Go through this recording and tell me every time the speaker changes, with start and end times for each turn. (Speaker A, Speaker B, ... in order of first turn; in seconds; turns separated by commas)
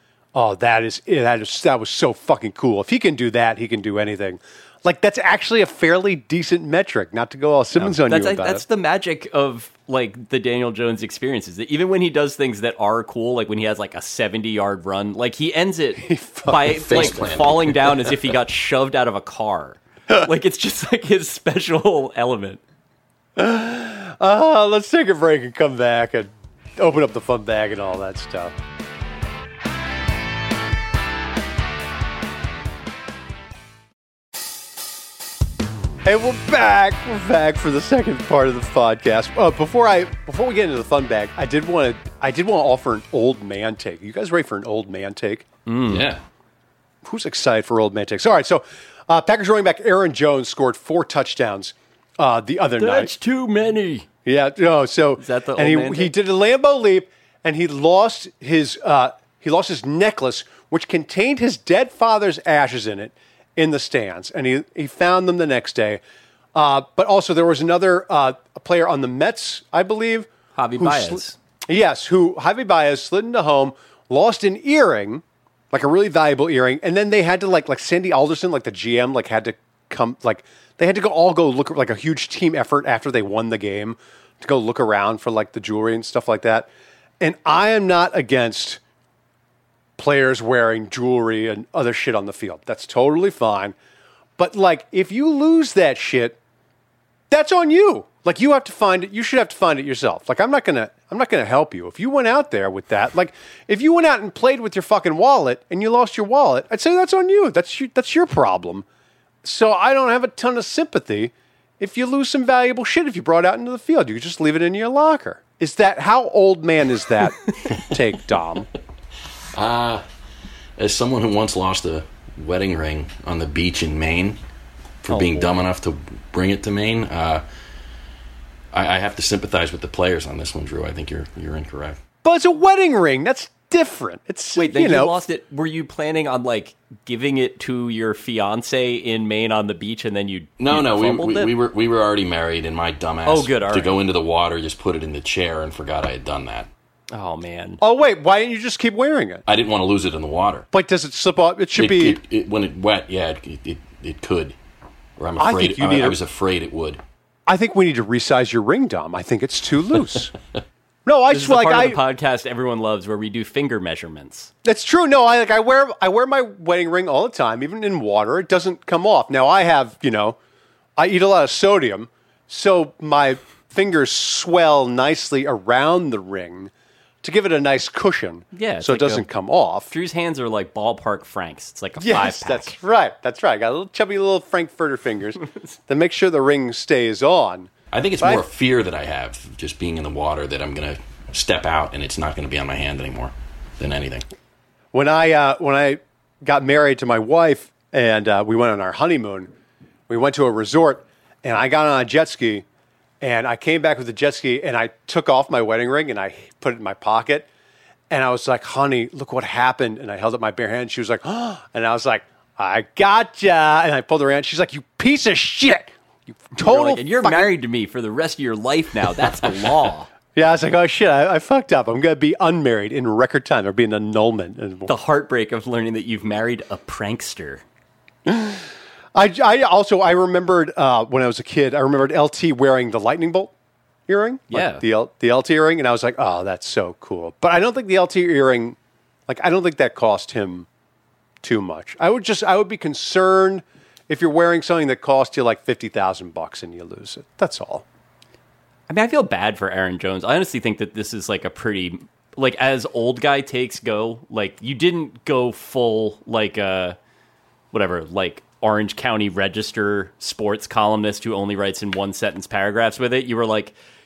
Speaker A: 0.3-8.6, Speaker B: 7.8-22.6, Speaker A: 16.0-17.3, Speaker C: 16.6-18.1, Speaker A: 23.4-28.5, Speaker A: 36.0-45.5, Speaker B: 45.6-46.1, Speaker C: 45.9-46.2, Speaker A: 47.0-53.1, Speaker B: 52.8-54.1, Speaker A: 54.3-66.0, Speaker B: 55.2-56.1, Speaker A: 66.5-86.7, Speaker B: 70.6-71.4, Speaker A: 87.2-88.8, Speaker A: 90.0-93.8, Speaker A: 94.4-96.4, Speaker A: 97.3-108.8, Speaker A: 109.4-118.7, Speaker C: 119.5-120.0, Speaker C: 120.8-124.4, Speaker C: 125.0-127.4, Speaker B: 125.1-125.5, Speaker C: 128.7-132.0, Speaker A: 132.2-135.2, Speaker B: 134.6-141.5, Speaker C: 140.6-146.7, Speaker B: 143.3-144.0, Speaker B: 147.1-147.8, Speaker A: 147.8-149.4, Speaker C: 149.5-150.7, Speaker A: 150.7-152.2, Speaker C: 151.8-154.6, Speaker C: 155.2-157.0, Speaker A: 155.4-156.2, Speaker A: 157.5-160.3, Speaker A: 161.1-162.0, Speaker B: 161.3-164.5, Speaker A: 164.6-170.4, Speaker A: 171.0-176.7, Speaker A: 177.2-179.9, Speaker B: 178.5-179.3, Speaker B: 179.9-182.8, Speaker A: 182.0-187.7, Speaker C: 187.9-194.2, Speaker A: 194.9-199.5, Speaker A: 200.1-202.6, Speaker A: 203.2-207.5, Speaker A: 208.1-217.5, Speaker B: 216.6-220.1, Speaker A: 220.3-224.9, Speaker B: 224.9-227.6, Speaker A: 228.3-233.5, Speaker A: 234.1-238.8, Speaker B: 234.5-234.8, Speaker A: 239.3-240.7, Speaker A: 241.4-247.8, Speaker B: 248.9-257.0, Speaker B: 257.7-263.7